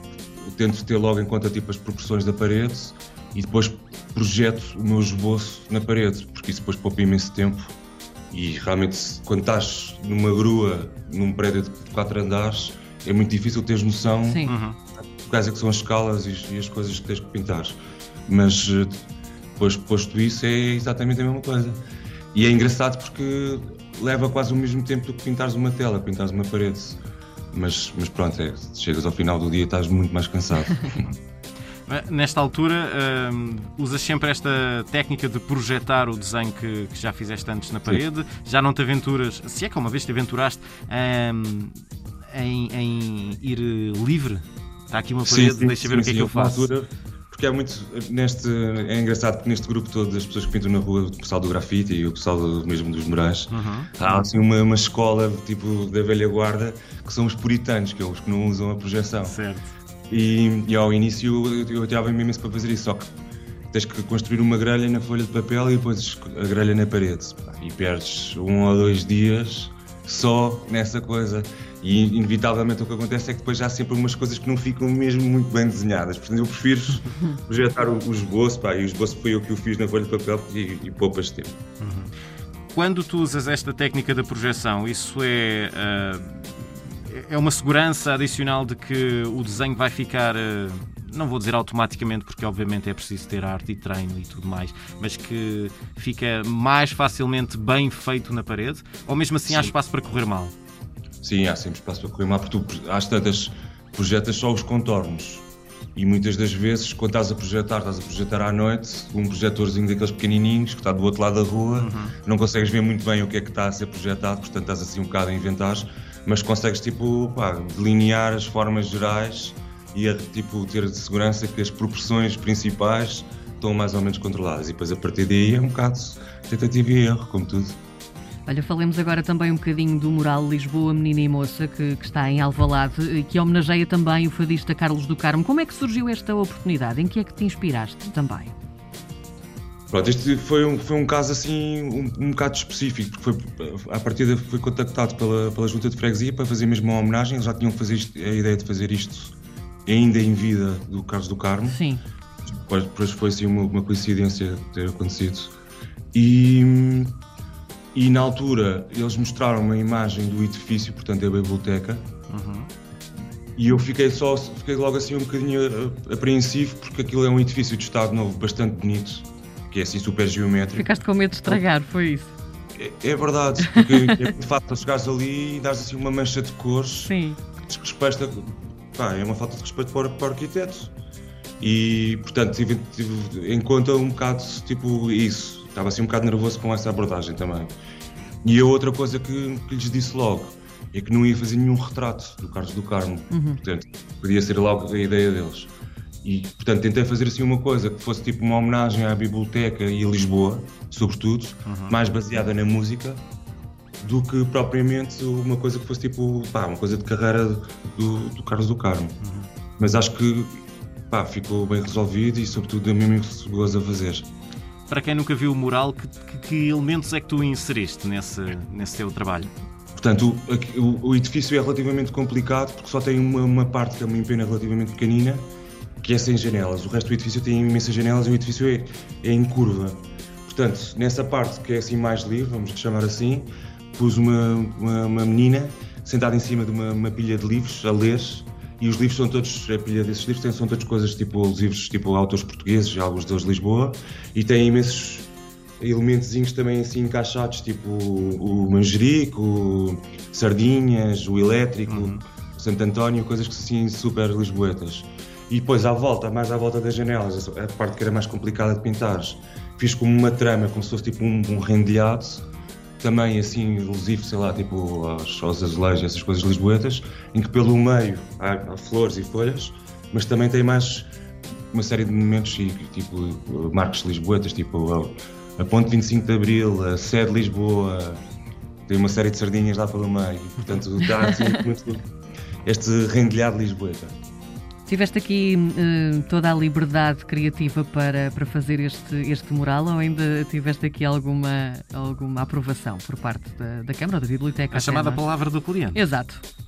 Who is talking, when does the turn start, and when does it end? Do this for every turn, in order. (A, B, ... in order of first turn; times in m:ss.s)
0:00.4-0:07.7 A
0:08.3-0:14.4 A
0:14.2-0:14.5 B
0:14.4-0:14.8 C
0:15.0-0:19.0 A
0:19.6-0:21.8 A
0:22.3-0:27.0 A
0:27.5-0:31.2 A
0:31.9-0:46.7 C
0:45.2-0:59.4 A
0:53.5-0:54.2 C
0:59.2-0:59.7 C
1:00.1-1:03.1 A
1:03.7-1:21.6 A
1:21.8-1:22.1 C
1:22.7-1:40.5 C
1:41.2-1:45.4 A
1:46.0-2:07.8 A
1:51.8-1:52.1 C
2:08.4-2:18.5 B
2:19.9-2:29.3 A
2:29.9-2:31.8 A
2:31.6-2:32.0 B
2:32.5-2:35.5 A
2:36.1-2:37.2 A
2:37.9-2:42.1 A
2:42.3-2:42.7 C
2:43.6-2:50.9 A
2:50.7-2:52.3 B
2:52.8-3:00.9 A
2:53.6-2:53.9 B
2:57.0-2:57.4 B
3:01.6-3:07.7 A
3:08.4-3:15.7 A
3:13.3-3:13.6 B
3:16.2-3:23.2 A
3:21.6-3:22.0 C
3:24.0-3:29.2 A
3:29.2-3:29.5 C
3:29.8-3:34.3 A
3:34.9-3:39.5 C
3:40.0-3:45.5 A
3:46.0-4:05.3 A
4:05.8-4:22.4 A
4:11.9-4:12.2 C
4:23.0-4:31.1 A
4:31.7-4:38.2 A
4:38.9-4:42.0 A
4:42.6-4:44.1 A
4:44.8-4:55.2 B
4:54.7-4:56.0 C
4:55.9-4:56.4 B